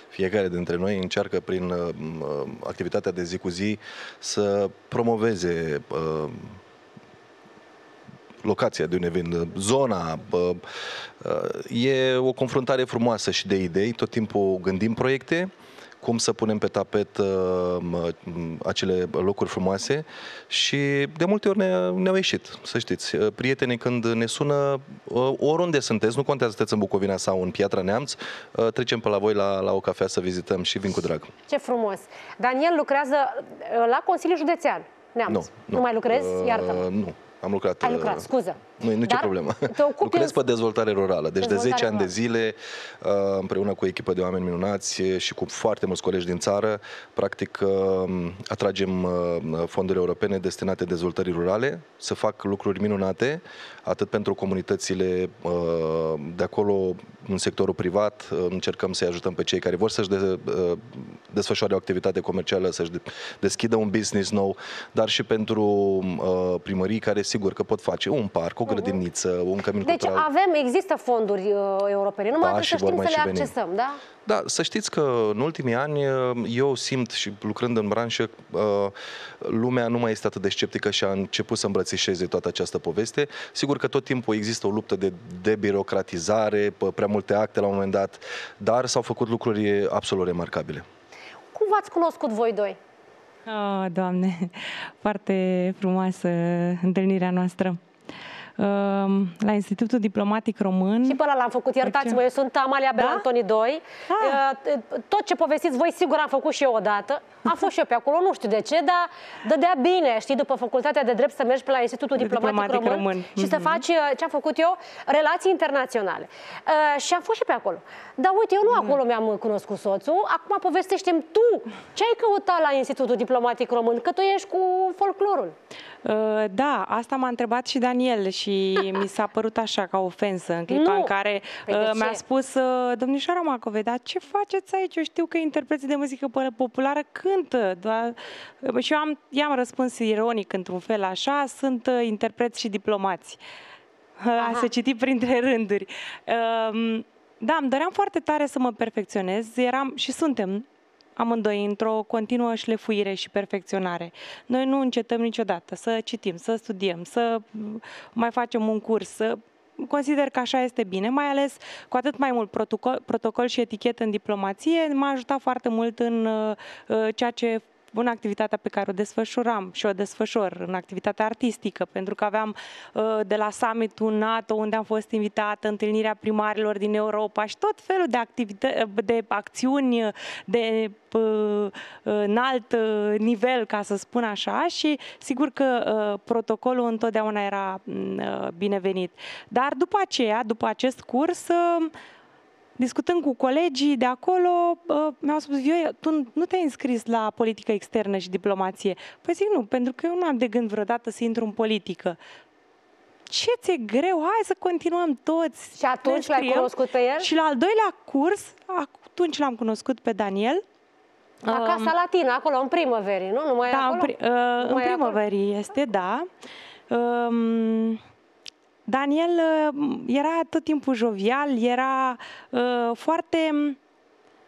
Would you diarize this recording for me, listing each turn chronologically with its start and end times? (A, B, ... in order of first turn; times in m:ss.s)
0:00.1-0:06.6 A
0:08.4-0:10.6 A
0:11.2-0:15.5 A
0:16.0-0:31.3 A
0:31.5-0:36.9 B
0:35.3-1:10.3 A
0:37.8-0:40.4 B
0:41.4-0:42.1 B
1:08.7-1:09.0 B
1:09.8-1:14.0 B
1:12.4-1:13.5 A
1:14.2-1:30.8 A
1:31.5-1:32.8 B
1:33.5-1:37.8 C
1:38.6-1:41.2 C
1:41.0-2:05.5 B
1:41.8-1:42.2 C
1:42.9-1:43.2 C
1:44.1-1:44.4 C
1:52.2-1:53.8 C
2:06.0-2:23.4 C
2:10.7-2:11.1 B
2:11.6-2:12.2 B
2:24.2-2:30.6 C
2:24.4-2:24.7 B
2:31.2-3:11.9 C
3:12.8-3:22.2 C
3:23.3-3:30.6 C
3:25.8-3:27.3 B
3:31.4-3:31.9 C
3:31.4-3:35.2 B
3:33.7-3:36.3 C
3:36.9-3:38.0 C
3:38.8-3:43.8 C